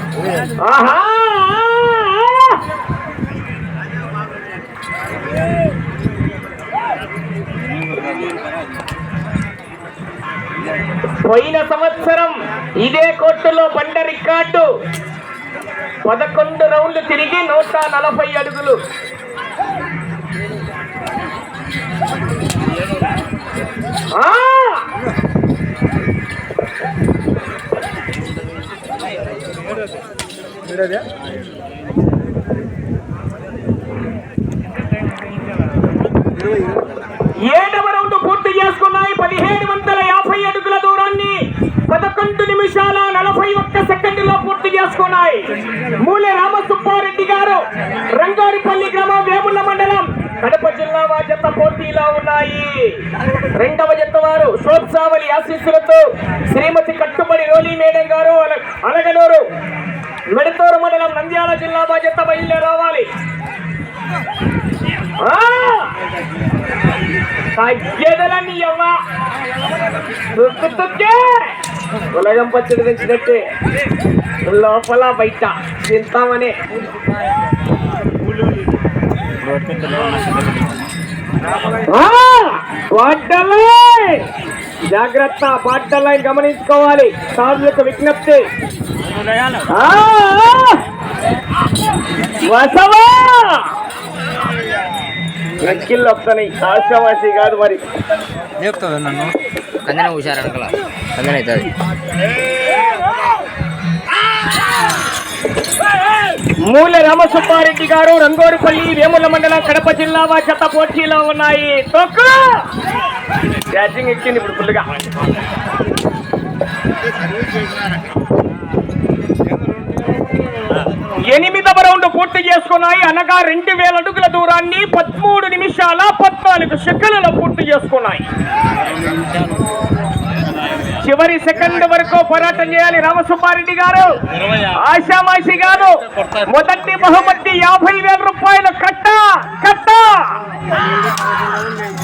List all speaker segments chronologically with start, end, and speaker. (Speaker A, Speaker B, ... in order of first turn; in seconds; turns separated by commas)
Speaker A: 0.6-2.6, Speaker A: 11.2-14.7, Speaker A: 16.0-18.8, Speaker A: 24.1-24.9, Speaker A: 37.4-59.4, Speaker A: 60.3-63.1, Speaker A: 65.2-65.9, Speaker A: 67.5-69.0, Speaker A: 70.3-71.5, Speaker A: 72.1-73.5, Speaker A: 74.4-76.5, Speaker B: 79.4-80.9, Speaker A: 81.8-84.3, Speaker A: 84.9-88.5, Speaker B: 89.0-89.7, Speaker A: 89.7-90.8, Speaker A: 92.4-93.7, Speaker A: 95.6-97.8, Speaker B: 98.6-101.7, Speaker A: 106.7-112.7, Speaker A: 113.7-114.8, Speaker A: 121.1-128.2, Speaker A: 130.9-140.4